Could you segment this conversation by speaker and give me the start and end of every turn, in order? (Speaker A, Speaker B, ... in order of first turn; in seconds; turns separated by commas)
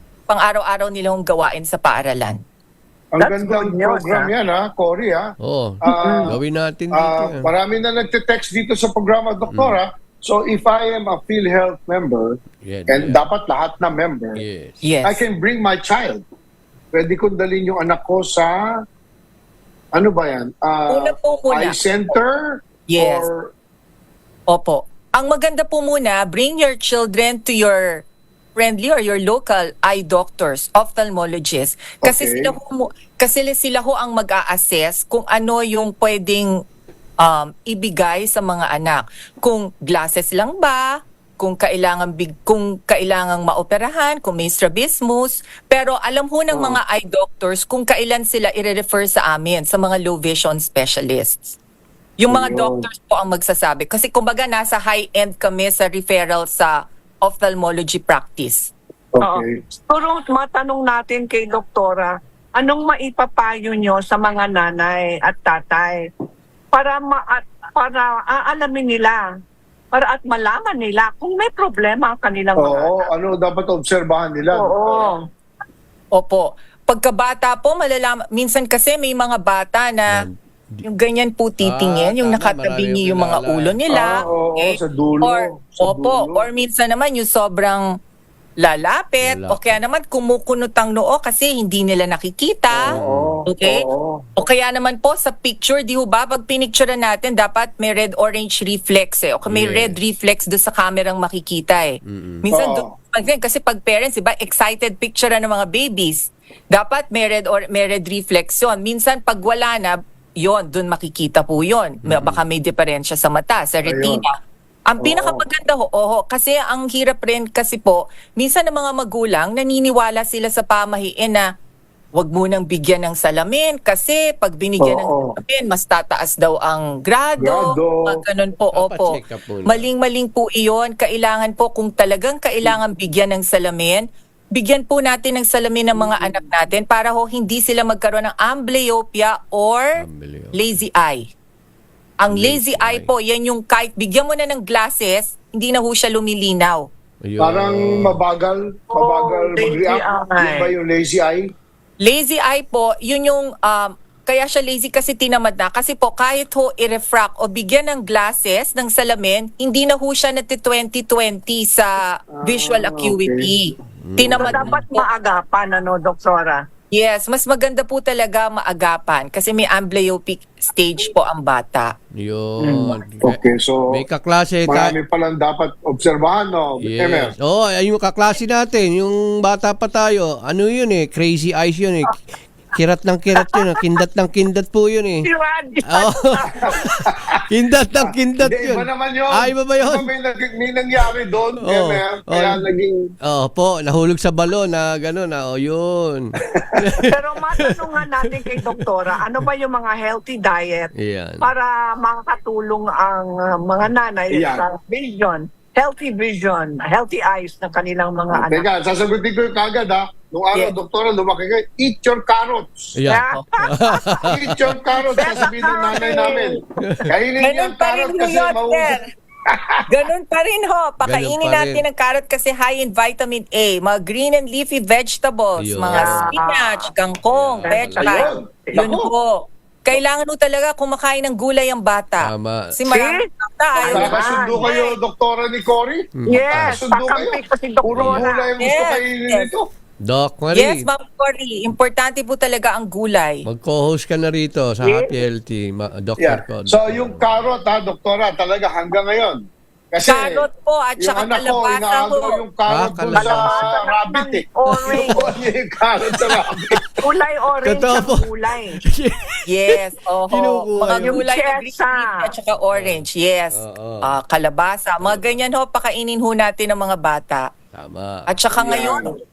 Speaker A: 0.3-2.4, Speaker B: 3.1-5.3, Speaker C: 3.2-4.3, Speaker D: 5.4-7.5, Speaker B: 5.8-6.4, Speaker C: 5.8-6.3, Speaker B: 6.9-14.4, Speaker D: 9.5-9.8, Speaker D: 12.6-13.2, Speaker D: 14.4-14.8, Speaker A: 14.8-15.2, Speaker B: 15.0-16.2, Speaker B: 16.9-18.7, Speaker B: 19.9-23.5, Speaker A: 20.9-21.8, Speaker A: 22.9-23.3, Speaker A: 24.5-28.0, Speaker A: 28.6-36.5, Speaker B: 32.0-32.5, Speaker A: 37.2-51.5, Speaker B: 46.5-46.8, Speaker A: 52.2-58.7, Speaker B: 52.3-52.9, Speaker B: 59.1-59.5, Speaker C: 59.2-66.1, Speaker C: 66.7-69.2, Speaker C: 69.9-73.1, Speaker B: 72.5-75.1, Speaker C: 74.5-75.2, Speaker A: 76.1-80.2, Speaker D: 80.1-80.8, Speaker A: 80.8-87.8, Speaker D: 81.6-84.2, Speaker B: 83.9-86.5, Speaker A: 88.6-92.9, Speaker D: 89.2-89.8, Speaker B: 92.7-94.3, Speaker D: 92.9-93.4, Speaker A: 93.5-93.8, Speaker A: 94.3-114.3, Speaker D: 99.5-99.9, Speaker D: 102.0-102.4, Speaker B: 102.5-102.9, Speaker D: 112.0-112.4, Speaker B: 113.8-114.2, Speaker A: 114.9-121.5, Speaker B: 115.0-115.4, Speaker A: 122.1-139.9, Speaker B: 124.8-125.4, Speaker B: 127.4-128.2, Speaker D: 128.7-129.8, Speaker D: 140.0-140.8, Speaker A: 140.5-141.3, Speaker A: 142.2-146.9, Speaker D: 142.3-143.1, Speaker D: 147.2-148.2, Speaker B: 147.4-151.5, Speaker C: 148.9-150.7, Speaker A: 152.0-165.1, Speaker B: 162.3-163.5, Speaker D: 164.0-164.8, Speaker C: 164.3-166.6, Speaker A: 166.9-171.9, Speaker D: 172.2-173.4, Speaker C: 172.6-173.0, Speaker B: 173.2-174.0, Speaker D: 173.9-174.9, Speaker B: 174.7-177.3, Speaker D: 176.8-185.2, Speaker C: 185.2-186.8, Speaker D: 185.9-190.1, Speaker B: 186.6-187.4, Speaker B: 188.0-193.0, Speaker D: 191.6-192.6, Speaker D: 193.2-198.8, Speaker B: 196.5-196.9, Speaker C: 197.0-208.7, Speaker D: 201.0-201.5, Speaker B: 204.3-204.6, Speaker B: 208.3-212.9, Speaker D: 212.9-214.5, Speaker C: 213.1-214.3, Speaker B: 214.2-218.9, Speaker C: 215.1-216.6, Speaker D: 216.8-217.1, Speaker A: 217.4-219.0, Speaker B: 219.4-219.8, Speaker A: 219.9-234.9, Speaker D: 221.0-221.8, Speaker D: 225.6-226.3, Speaker C: 225.9-226.8, Speaker D: 227.3-228.2, Speaker C: 227.6-228.8, Speaker B: 228.0-229.1, Speaker D: 232.2-232.7, Speaker C: 232.9-234.7, Speaker B: 233.8-239.7, Speaker D: 236.2-236.8, Speaker C: 236.3-238.5, Speaker D: 237.9-238.2, Speaker A: 238.6-239.5, Speaker D: 240.0-240.9, Speaker A: 240.5-243.4, Speaker D: 243.4-247.3, Speaker C: 244.8-245.2, Speaker B: 246.2-250.5, Speaker A: 250.0-252.4, Speaker B: 251.0-256.8, Speaker D: 252.7-253.6, Speaker C: 253.1-255.3, Speaker D: 254.7-255.2, Speaker D: 256.1-257.0, Speaker C: 257.0-258.8, Speaker D: 257.6-259.8, Speaker A: 259.5-267.5, Speaker D: 260.3-261.2, Speaker C: 261.0-262.1, Speaker D: 262.7-264.1, Speaker D: 265.0-265.4, Speaker D: 267.7-268.4, Speaker A: 268.3-269.1, Speaker B: 268.5-269.1, Speaker C: 268.7-269.1